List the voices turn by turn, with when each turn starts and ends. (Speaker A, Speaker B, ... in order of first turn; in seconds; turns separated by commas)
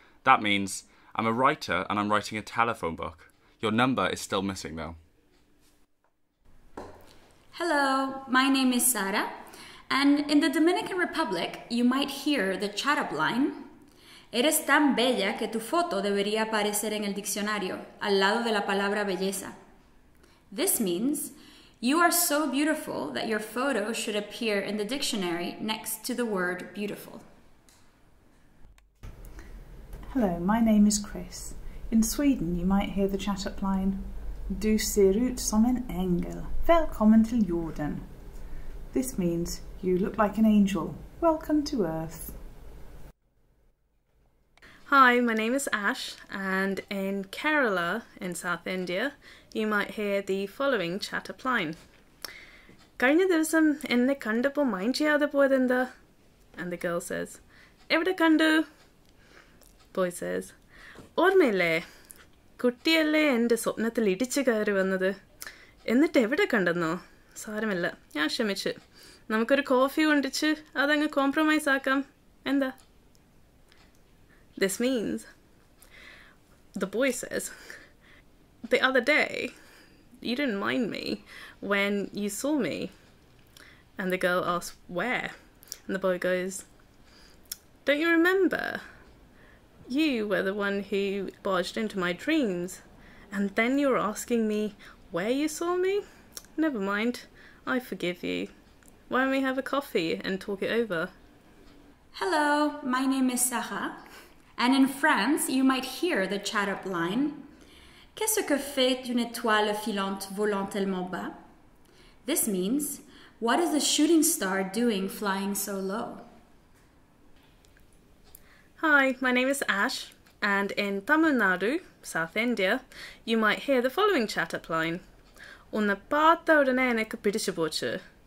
Speaker A: 0.2-5.0, Speaker B: 7.5-9.3, Speaker B: 9.9-13.7, Speaker B: 14.3-19.5, Speaker B: 20.5-27.2, Speaker C: 30.1-38.0, Speaker C: 38.9-42.4, Speaker D: 44.9-51.8, Speaker D: 53.0-55.9, Speaker D: 56.5-58.6, Speaker D: 59.9-60.5, Speaker D: 61.1-61.8, Speaker D: 62.6-65.1, Speaker D: 65.8-68.8, Speaker D: 69.3-72.7, Speaker D: 74.6-75.3, Speaker D: 76.7-77.5, Speaker D: 78.6-79.5, Speaker D: 80.2-82.9, Speaker D: 84.0-85.3, Speaker D: 85.9-86.7, Speaker D: 87.8-88.8, Speaker D: 89.9-96.0, Speaker D: 96.5-98.5, Speaker D: 99.1-101.1, Speaker B: 102.1-104.0, Speaker B: 104.6-107.4, Speaker B: 108.2-111.3, Speaker B: 112.2-116.2, Speaker D: 118.8-125.0, Speaker D: 125.7-128.0